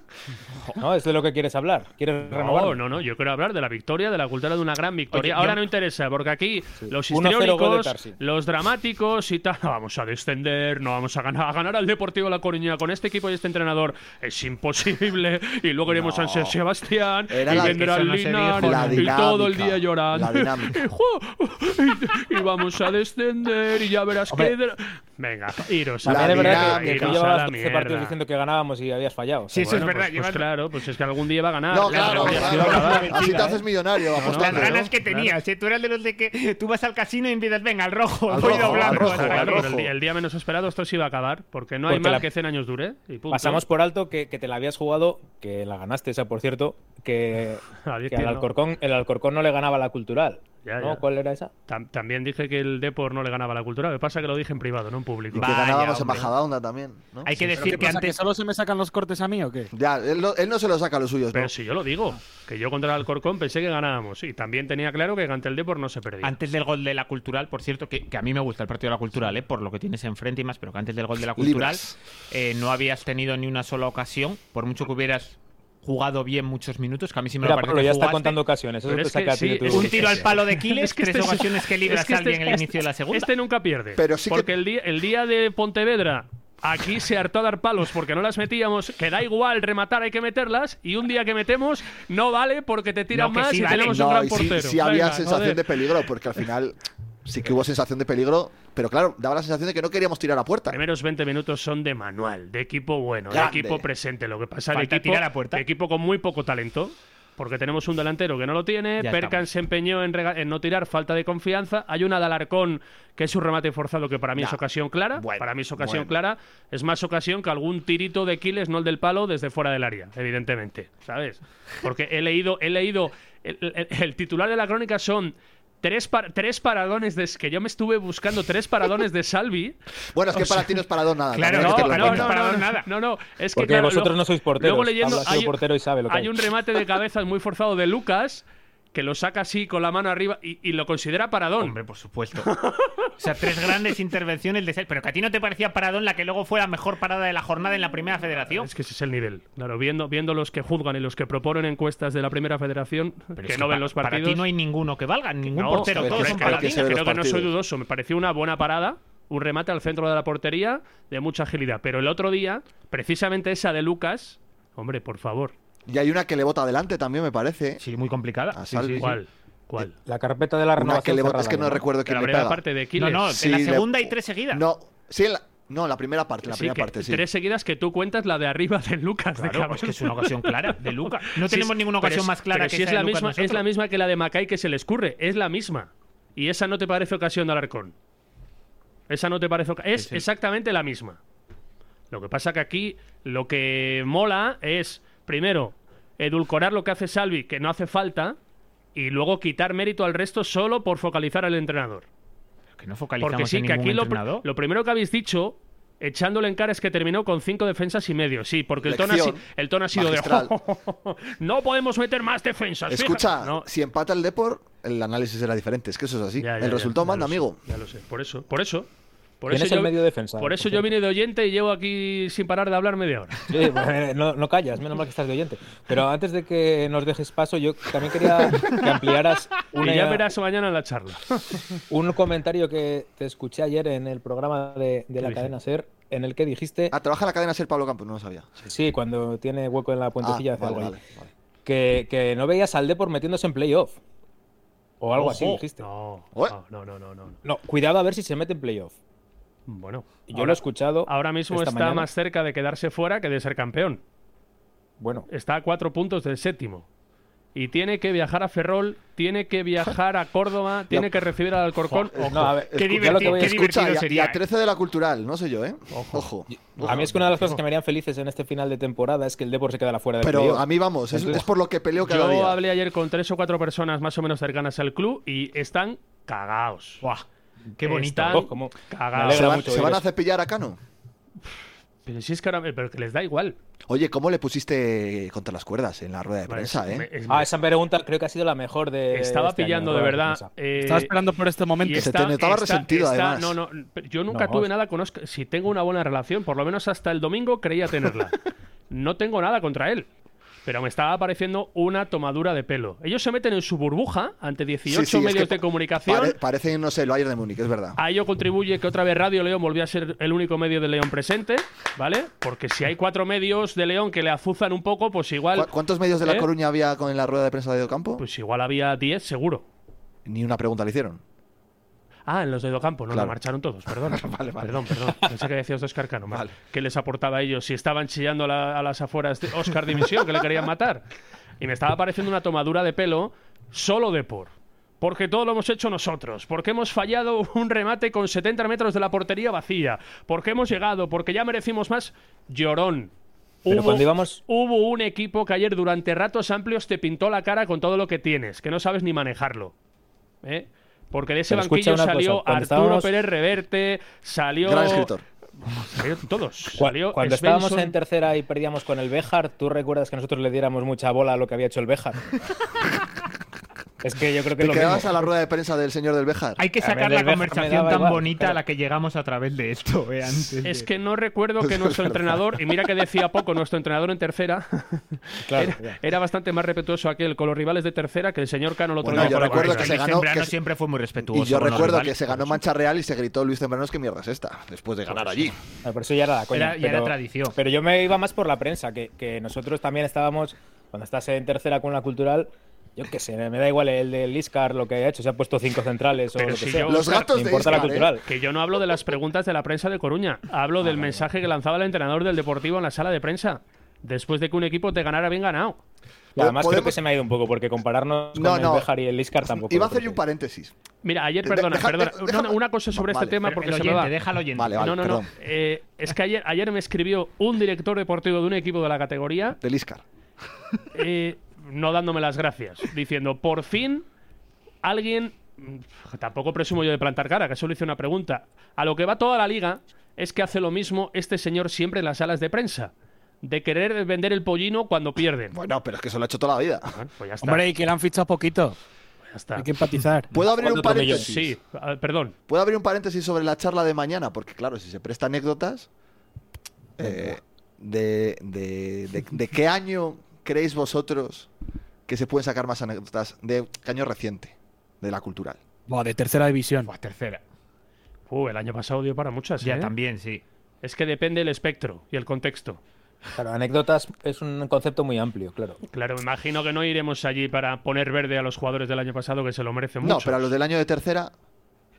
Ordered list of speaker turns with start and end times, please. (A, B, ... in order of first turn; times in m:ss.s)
0:00.8-0:02.8 A
0:02.2-0:28.2 B
0:05.1-0:05.6 C
0:06.8-0:08.2 A
0:15.9-0:16.6 D
0:17.3-0:17.8 D
0:17.4-0:19.1 C
0:18.6-0:20.8 D
0:24.3-0:24.5 A
0:26.0-0:29.6 A
0:26.0-0:27.2 D
0:29.5-0:30.5 C
0:29.6-0:33.3 B
0:31.7-0:34.9 D
0:31.9-0:33.5 C
0:31.9-0:33.6 A
0:34.1-0:35.3 B
0:34.2-0:39.7 C
0:38.3-0:39.9 D
0:38.6-0:43.6 B
0:41.9-0:42.2 A
0:43.3-0:51.5 A
0:47.8-0:48.5 B
0:50.6-0:51.0 B
0:51.7-0:55.5 B
0:55.3-0:57.8 D
0:55.3-0:56.3 C
0:57.2-0:58.2 C
0:57.5-0:59.7 E
0:59.7-1:01.5 D
1:01.3-1:06.3 B
1:06.2-1:18.4 C
1:11.4-1:12.0 D
1:17.4-1:20.2 A
1:18.8-1:35.6 B
1:19.7-1:23.3 C
1:24.0-1:24.5 D
1:33.1-1:34.0 C
1:33.6-1:40.8 D
1:40.7-2:09.8 B
1:43.3-1:43.8 D
1:44.7-1:45.6 C
1:49.0-1:49.4 C
1:55.2-1:56.1 D
2:10.1-2:12.3 D
2:11.3-2:12.9 C
2:11.5-2:21.8 B
2:13.5-2:16.5 A
2:21.6-2:22.5 C
2:22.4-2:23.0 B
2:23.2-2:28.7 C
2:28.5-2:34.4 B
2:33.4-2:36.9 C
2:35.5-2:45.5 B
2:35.8-2:37.5 D
2:45.9-2:47.8 D
2:47.8-2:49.2 C
2:48.5-2:49.1 D
2:49.0-2:50.0 B
2:50.0-2:51.9 A
2:50.8-2:52.6 D
2:52.0-2:53.3 B
2:53.0-2:54.6 C
2:53.3-2:57.2 D
2:56.5-3:07.9 B
2:59.3-3:03.6 C
3:09.1-3:11.2 B
3:10.0-3:10.2 C
3:12.1-3:18.4 B
3:18.9-3:22.0 B
3:22.8-3:24.4 C
3:23.2-3:33.6 B
3:28.8-3:30.5 D
3:32.9-3:37.6 D
3:36.4-3:38.9 B
3:39.4-3:43.4 B
3:39.5-3:40.9 A
3:43.5-3:50.2 A
3:49.8-3:51.6 B
3:51.9-3:56.9 A
3:56.9-3:58.7 D
3:58.7-4:01.0 A
4:00.2-4:01.3 D
4:01.6-4:04.0 A
4:05.0-4:05.8 A
4:05.2-4:07.4 B
4:07.4-4:08.9 A
4:09.7-4:14.0 B
4:10.2-4:12.1 A
4:15.0-4:15.3 A
4:15.3-4:16.8 B
4:17.5-4:22.6 B
4:22.1-4:27.3 D
4:22.1-4:23.6 A
4:22.7-4:24.4 C
4:25.9-4:26.3 B
4:26.5-4:31.4 A
4:26.8-4:27.6 B
4:30.2-4:32.6 D
4:32.0-4:37.0 B
4:37.8-4:38.4 C
4:37.8-4:39.8 B
4:38.2-4:40.0 A
4:39.2-4:40.8 D
4:42.0-4:43.6 B
4:43.9-4:47.1 D
4:46.5-4:47.6 B
4:47.3-4:50.5 A
4:49.1-4:51.1 B
4:50.8-4:52.1 E
4:51.8-4:58.4 B
4:52.0-4:53.6 D
4:54.3-4:54.7 A
4:58.9-5:00.1 B
5:00.6-5:06.4 B
5:04.9-5:08.0 D
5:08.0-5:15.7 B
5:15.5-5:18.2 D
5:16.2-5:16.5 B
5:18.2-5:19.6 B
5:20.2-5:21.2 D
5:22.3-5:31.1 B
5:23.1-5:23.4 D
5:24.0-5:24.9 D
5:31.6-5:43.1 B
5:43.6-5:49.7 B
5:43.7-5:44.4 A
5:50.4-5:55.1 B
5:51.5-5:53.1 A
5:54.6-5:55.2 D
5:55.7-5:57.9 B
5:56.8-6:02.2 A
6:04.0-6:05.1 A
6:04.6-6:06.6 D
6:06.6-6:10.6 C
6:06.8-6:08.6 A
6:10.6-6:20.0 B
6:11.6-6:12.4 D
6:15.5-6:16.0 A
6:19.0-6:20.5 D
6:19.1-6:22.6 C
6:21.2-6:25.6 D
6:25.1-6:25.5 C
6:25.8-6:38.2 A
6:26.5-6:27.5 C
6:36.3-6:45.8 B
6:36.8-6:38.2 D
6:40.8-6:41.3 A
6:46.4-6:50.2 A
6:46.4-6:47.0 D
6:48.3-6:48.9 D
6:49.4-6:50.7 D
6:51.0-6:54.1 B
6:51.4-6:53.5 D
6:53.5-6:54.9 C
6:54.5-6:55.3 D
6:54.8-6:59.6 B
6:59.6-7:00.0 D
7:00.9-7:04.0 B
7:04.8-7:15.6 B
7:15.5-7:17.0 D
7:16.9-7:17.7 B
7:17.4-7:18.8 E
7:19.3-7:19.7 B
7:19.6-7:20.3 E
7:20.3-7:21.6 D
7:20.5-7:21.3 A
7:20.9-7:22.3 B
7:22.5-7:25.9 D
7:27.0-7:31.5 D
7:27.0-7:27.3 A
7:32.1-7:35.6 D
7:35.9-7:36.9 E
7:36.8-7:37.4 C
7:38.3-7:39.9 B
7:39.6-7:40.4 C
7:40.8-7:42.8 B
7:43.4-7:45.8 A
7:45.9-7:50.5 B
7:50.0-7:51.3 D